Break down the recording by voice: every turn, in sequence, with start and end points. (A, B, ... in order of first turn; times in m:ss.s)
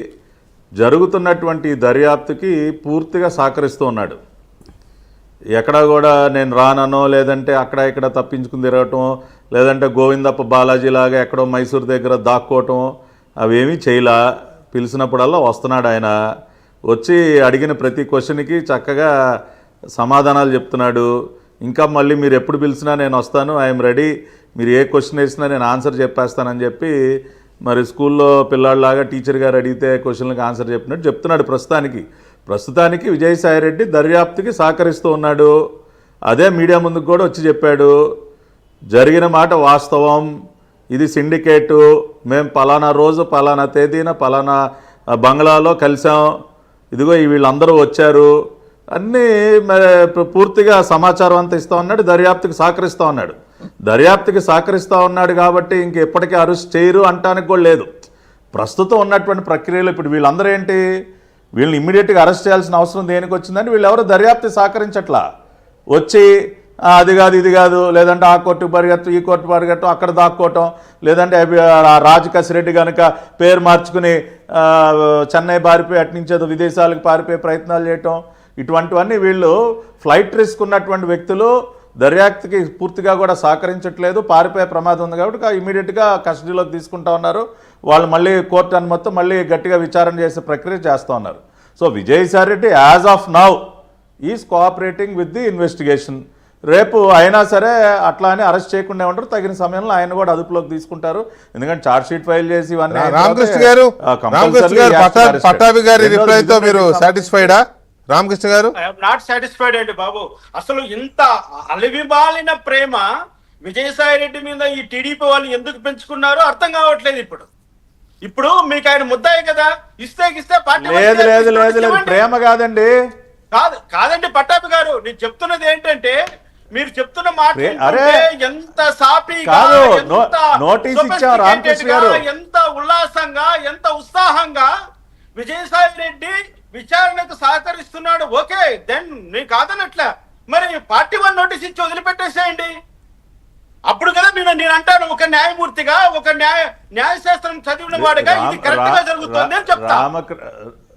0:00.8-0:04.2 A
0:05.6-0:12.9 A
0:13.4-0:14.2 A
0:14.7-0:16.1 A
0:16.9-0:19.1 A
0:20.0-0:21.1 A
0:21.6-0:26.9 A
0:27.7-0:35.5 A
0:36.3-0:37.9 A
0:38.9-0:40.3 A
0:40.9-0:44.6 A
0:45.2-0:46.3 A
0:46.9-0:48.3 A
0:49.0-0:53.4 A
0:53.9-0:57.9 A
0:58.5-1:00.8 A
1:01.6-1:05.2 A
1:05.9-1:06.3 A
1:06.9-1:33.6 A
1:34.3-1:47.6 A
1:42.9-1:48.7 B
1:48.8-1:53.0 C
1:53.6-1:57.5 C
1:58.3-2:02.2 C
2:00.8-2:02.9 A
2:03.5-2:06.2 C
2:06.8-2:14.7 C
2:07.6-2:08.2 A
2:09.4-2:12.2 A
2:15.4-2:22.7 C
2:23.9-2:30.0 C
2:27.9-2:30.4 A